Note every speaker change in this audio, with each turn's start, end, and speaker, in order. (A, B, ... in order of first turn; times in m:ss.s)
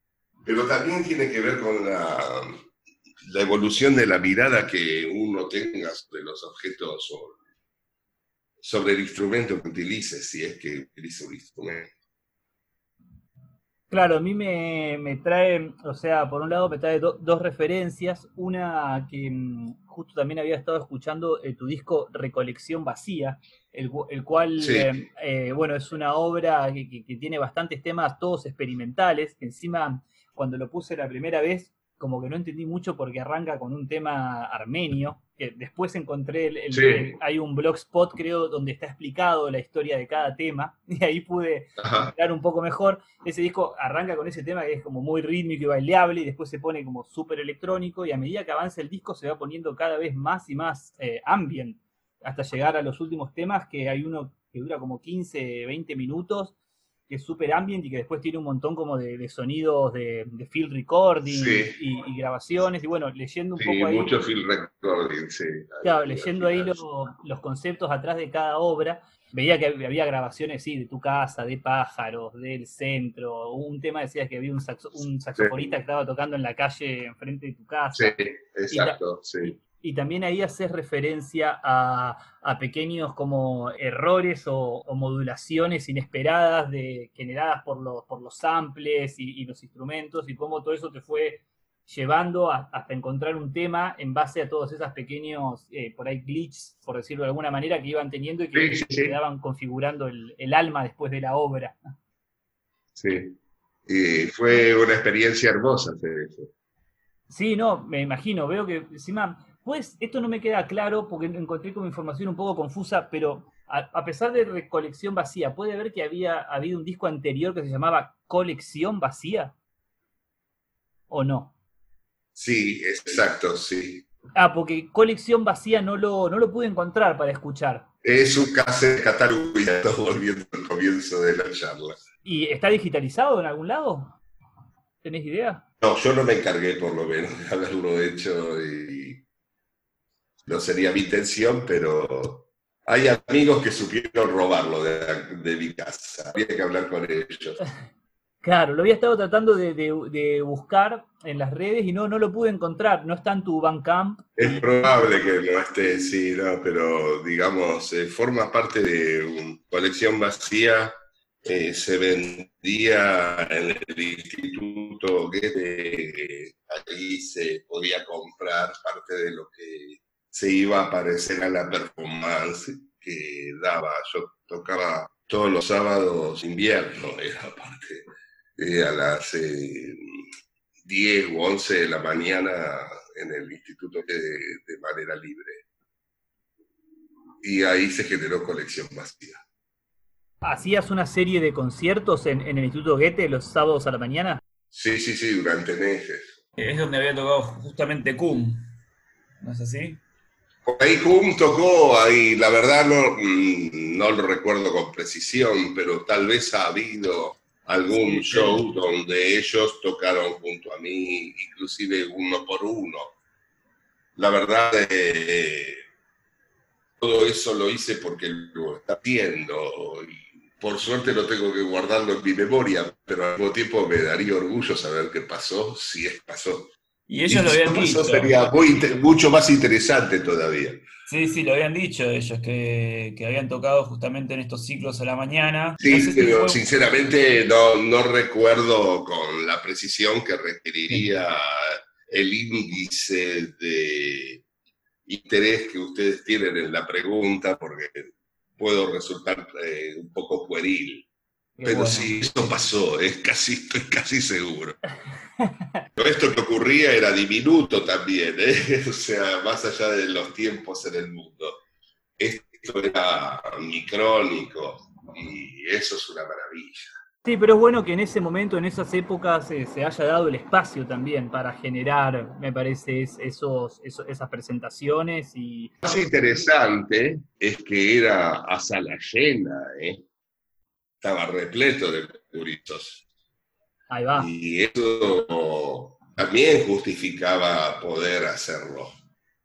0:00.4-0:02.6 A
0:03.2-0:07.4 A
0:08.6-0:11.9 A
0:13.9-0:56.5 B
0:24.6-0:25.0 A
0:36.7-0:37.1 A
0:41.8-0:42.1 A
0:57.1-1:04.1 B
1:01.2-1:01.8 A
1:03.6-1:06.8 A
1:05.8-1:18.2 B
1:15.4-1:15.7 A
1:17.9-1:19.6 A
1:18.7-1:41.8 B
1:38.5-1:39.2 A
1:42.9-1:43.4 A
1:43.9-1:46.5 A
1:47.3-1:59.5 B
2:01.1-2:01.5 B
2:02.4-2:04.0 A
2:04.4-2:07.9 B
2:08.0-2:12.0 A
2:12.2-2:14.2 B
2:15.0-2:15.6 B
2:15.8-2:19.2 A
2:20.4-2:27.6 A
2:28.4-2:34.6 B
2:34.4-3:00.2 A
3:00.8-3:05.6 A
3:07.4-3:09.4 A
3:10.4-3:14.4 B
3:14.7-3:16.4 A
3:16.6-3:18.7 C
3:19.4-3:20.0 C
3:20.6-3:33.2 A
3:27.9-3:28.6 C
3:34.2-3:35.8 A
3:37.0-3:46.7 A
3:47.1-3:48.5 C
3:47.3-3:50.8 A
3:51.1-3:56.8 C
3:55.8-4:04.4 A
4:05.0-4:11.1 A
4:11.6-4:12.1 C
4:11.6-4:14.8 A
4:16.0-4:21.6 A
4:22.2-4:26.9 A
4:27.2-4:35.8 B
4:35.8-4:40.0 A
4:41.0-4:43.0 A
4:43.9-4:44.3 B
4:44.1-4:49.0 A